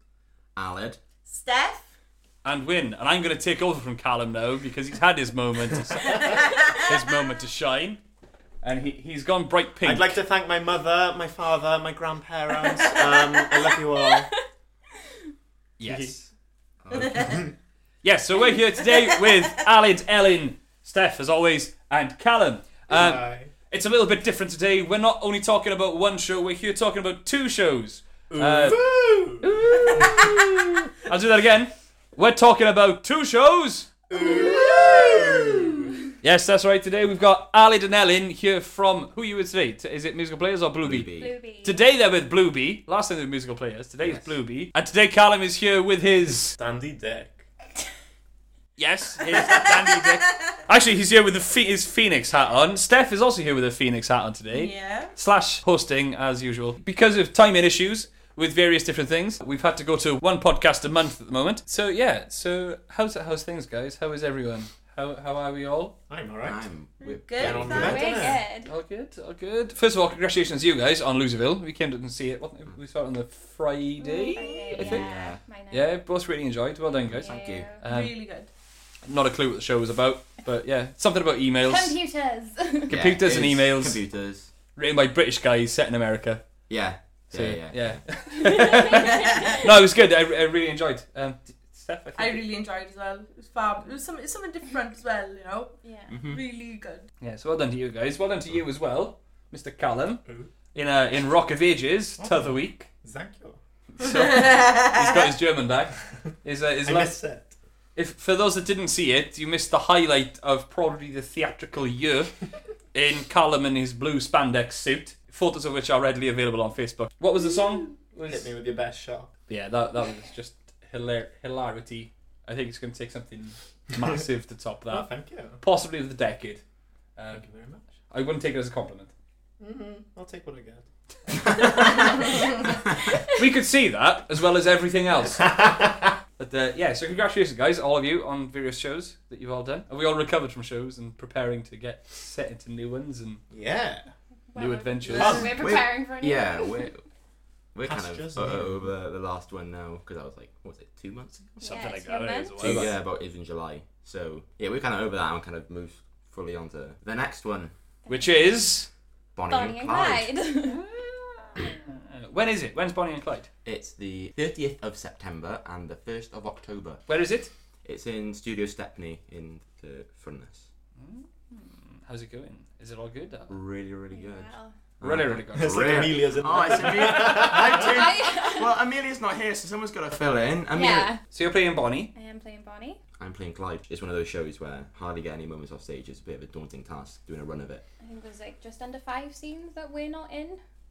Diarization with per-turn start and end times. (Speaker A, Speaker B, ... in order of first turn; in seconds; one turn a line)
Speaker A: 0.5-1.0
Speaker B: 1.2-1.9
Speaker C: 2.4-8.0
Speaker B: 6.1-6.9
Speaker C: 8.6-10.1
Speaker D: 9.8-14.3
Speaker B: 12.8-13.1
Speaker E: 13.6-14.4
Speaker C: 15.8-16.3
Speaker D: 15.8-16.2
Speaker A: 16.8-17.3
Speaker B: 16.9-17.4
Speaker D: 17.0-17.5
Speaker C: 18.0-28.8
Speaker D: 22.9-23.5
Speaker D: 28.3-30.3
Speaker C: 29.4-33.9
Speaker D: 34.1-35.9
Speaker B: 34.1-35.7
Speaker E: 34.2-35.0
Speaker C: 36.2-41.1
Speaker A: 40.8-41.3
Speaker E: 41.2-41.8
Speaker C: 41.6-46.6
Speaker A: 44.0-44.3
Speaker D: 46.5-47.4
Speaker C: 48.8-65.9
Speaker B: 54.5-55.1
Speaker D: 66.1-66.6
Speaker A: 66.4-68.1
Speaker B: 67.0-68.3
Speaker D: 67.4-68.4
Speaker E: 67.7-68.7
Speaker C: 68.6-75.0
Speaker E: 74.0-75.9
Speaker B: 74.2-74.9
Speaker A: 74.8-75.4
Speaker C: 75.7-78.2
Speaker E: 76.9-77.8
Speaker A: 77.1-77.7
Speaker B: 77.8-78.5
Speaker C: 79.0-82.0
Speaker E: 81.6-83.0
Speaker C: 82.9-84.0
Speaker A: 82.9-84.5
Speaker C: 84.8-86.5
Speaker A: 86.7-88.0
Speaker C: 87.3-92.5
Speaker E: 88.3-89.7
Speaker B: 92.1-97.0
Speaker E: 95.8-96.1
Speaker A: 96.1-96.4
Speaker C: 97.2-102.9
Speaker D: 100.2-100.5
Speaker D: 102.2-103.6
Speaker C: 103.9-107.2
Speaker B: 104.2-104.9
Speaker D: 106.8-107.5
Speaker C: 108.0-118.5
Speaker D: 118.2-119.3
Speaker C: 119.5-126.6
Speaker D: 124.9-125.6
Speaker C: 127.2-127.5
Speaker D: 127.3-127.8
Speaker C: 128.1-129.1
Speaker D: 129.6-131.8
Speaker E: 131.7-132.2
Speaker E: 133.1-133.3
Speaker C: 133.3-135.8
Speaker D: 135.3-136.1
Speaker C: 136.4-143.4
Speaker D: 143.5-144.1
Speaker E: 144.5-146.9
Speaker C: 144.6-145.5
Speaker D: 145.1-145.6
Speaker A: 145.2-147.1
Speaker A: 147.7-151.5
Speaker D: 147.8-148.8
Speaker E: 151.6-152.7
Speaker C: 151.6-152.9
Speaker A: 152.6-157.7
Speaker E: 158.1-158.4
Speaker C: 158.1-158.9
Speaker A: 159.3-160.3
Speaker E: 159.5-160.8
Speaker C: 160.7-163.5
Speaker A: 163.7-167.0
Speaker C: 167.1-167.5
Speaker A: 167.8-170.7
Speaker C: 171.0-173.6
Speaker A: 173.5-181.1
Speaker E: 174.1-174.7
Speaker C: 175.0-177.1
Speaker D: 175.5-178.0
Speaker E: 177.6-178.7
Speaker E: 180.7-181.2
Speaker C: 181.3-182.1
Speaker E: 182.1-183.0
Speaker A: 183.2-187.8
Speaker E: 188.0-190.6